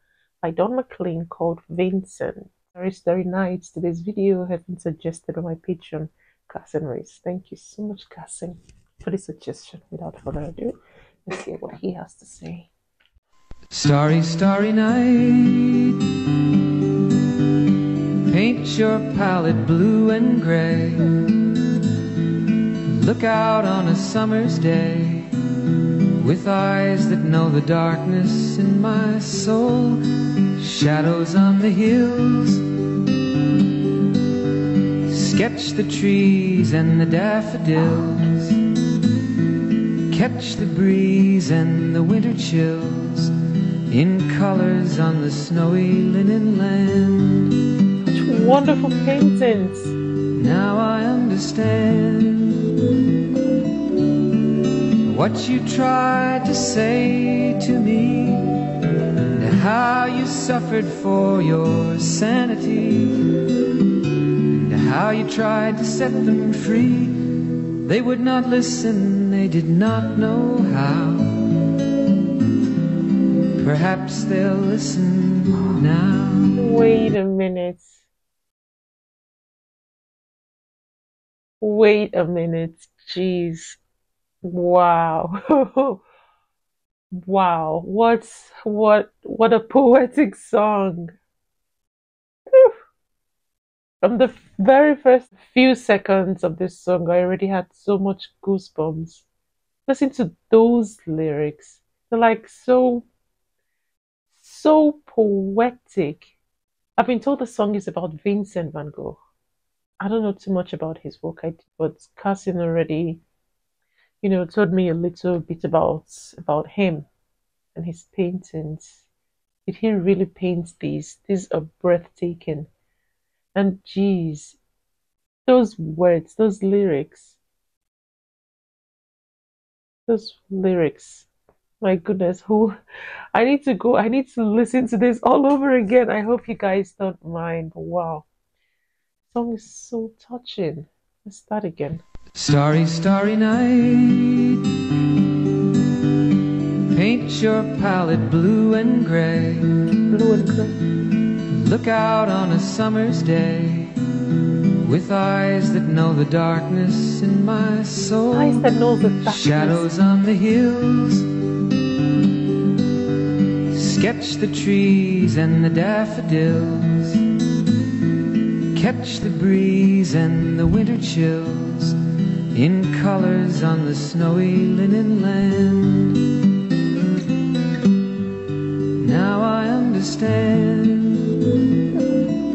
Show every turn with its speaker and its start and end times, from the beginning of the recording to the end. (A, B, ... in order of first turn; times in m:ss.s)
0:00.4-0:10.8 A
0:11.3-0:12.7 A
0:13.7-0:16.0 B
0:18.3-0:21.4 B
0:22.9-0:30.0 B
0:30.6-0:32.7 B
0:35.0-0:38.6 B
0:40.1-0:43.3 B
0:43.9-0:47.6 B
0:48.0-0:50.0 A
0:50.4-0:52.8 B
0:55.0-0:58.6 B
0:59.2-1:03.4 B
1:04.4-1:11.6 B
1:13.6-1:16.6 B
1:16.6-1:18.0 A
1:21.6-1:23.8 A
1:24.4-1:26.0 A
1:27.1-1:31.1 A
1:34.0-1:39.3 A
1:39.9-1:43.1 A
1:44.4-1:46.4 A
1:47.0-1:49.2 A
1:50.0-1:53.2 A
1:54.2-1:57.1 A
1:57.8-1:59.0 A
1:59.7-2:02.7 A
2:03.6-2:04.6 A
2:05.5-2:07.4 A
2:10.1-2:11.3 A
2:11.8-2:12.8 A
2:13.3-2:18.3 A
2:19.3-2:22.0 A
2:22.3-2:24.6 B
2:26.9-2:29.8 B
2:30.1-2:30.8 A
2:31.5-2:34.0 B
2:34.8-2:38.7 B
2:38.3-2:39.9 A
2:39.2-2:41.3 B
2:43.7-2:47.3 B
2:48.7-2:52.0 B
2:52.5-2:56.4 B
2:59.0-3:01.4 B